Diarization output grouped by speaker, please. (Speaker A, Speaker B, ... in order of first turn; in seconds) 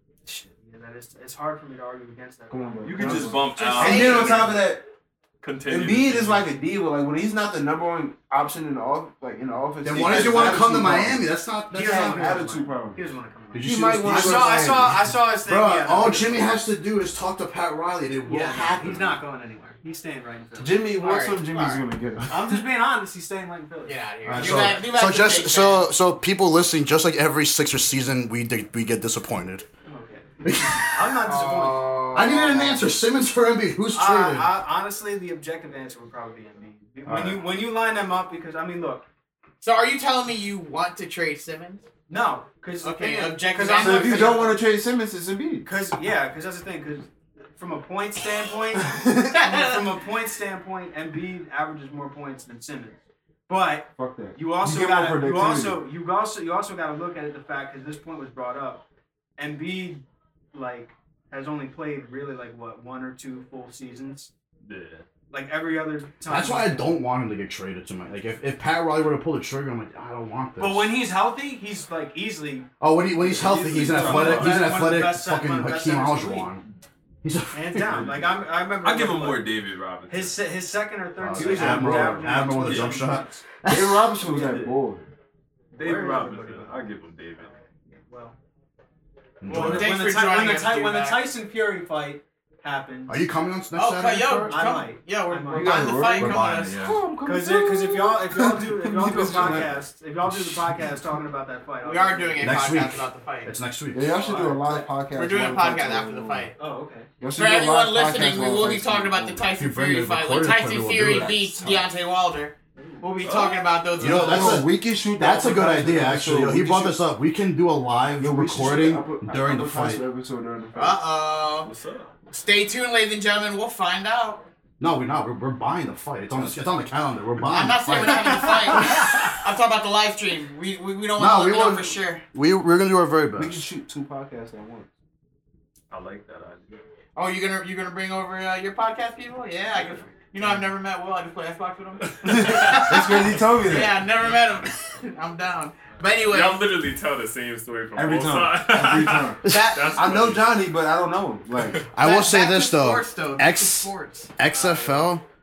Speaker A: 0.2-4.4, 11.7-16.6, 18.2-20.8, 22.3-24.7, 29.9-32.1, 33.9-39.0, 42.1-44.6, 45.6-58.8, 59.4-64.3, 65.3-66.9, 70.6-72.7, 73.9-76.5, 77.5-79.5, 80.1-83.4, 85.8-86.7, 87.9-88.3, 89.5-93.2, 94.4-96.1, 97.2-102.7, 104.1-104.9, 106.6-107.1, 112.8-113.0, 128.7-129.2
Speaker B: 2.5-4.8, 5.7-11.2, 11.8-13.0, 13.6-14.9, 20.6-22.6, 31.2-32.8, 43.7-45.7, 48.8-49.4, 54.0-55.8, 73.2-74.5, 81.3-82.4, 83.7-85.1, 95.5-99.8, 103.9-106.5, 107.2-109.4, 111.0-111.8, 114.0-117.0, 118.2-121.0, 133.4-134.9, 142.2-144.0, 147.9-149.4, 150.0-151.8
Speaker C: 2.8-4.6, 5.4-6.5, 64.6-65.0, 73.7-74.6, 77.9-80.4, 82.6-83.1, 84.2-84.8, 85.7-87.5, 113.2-113.8, 121.6-122.1, 135.9-136.8, 142.1-143.4, 146.2-150.4, 151.6-151.9, 154.5-155.1
Speaker D: 3.8-4.5, 21.0-21.8, 23.9-25.9, 39.6-41.9, 42.8-44.5, 49.3-49.8, 89.5-91.2, 93.7-96.8, 101.8-103.5, 105.1-106.5, 107.4-114.6, 120.7-121.7, 122.3-124.4, 127.5-132.2, 137.2-146.6, 149.5-150.0, 152.0-154.3
Speaker E: 9.8-12.4, 13.5-19.2, 24.2-29.6, 30.4-31.3, 32.1-34.5, 37.0-37.4, 66.2-70.9, 72.8-76.6, 77.2-78.1, 81.2-84.1, 89.4-89.9, 93.1-94.6, 96.2-97.0, 100.3-100.9, 102.4-104.1, 109.6-111.5, 114.0-120.0, 124.8-129.3, 131.2-133.7, 149.4-150.4, 151.9-155.2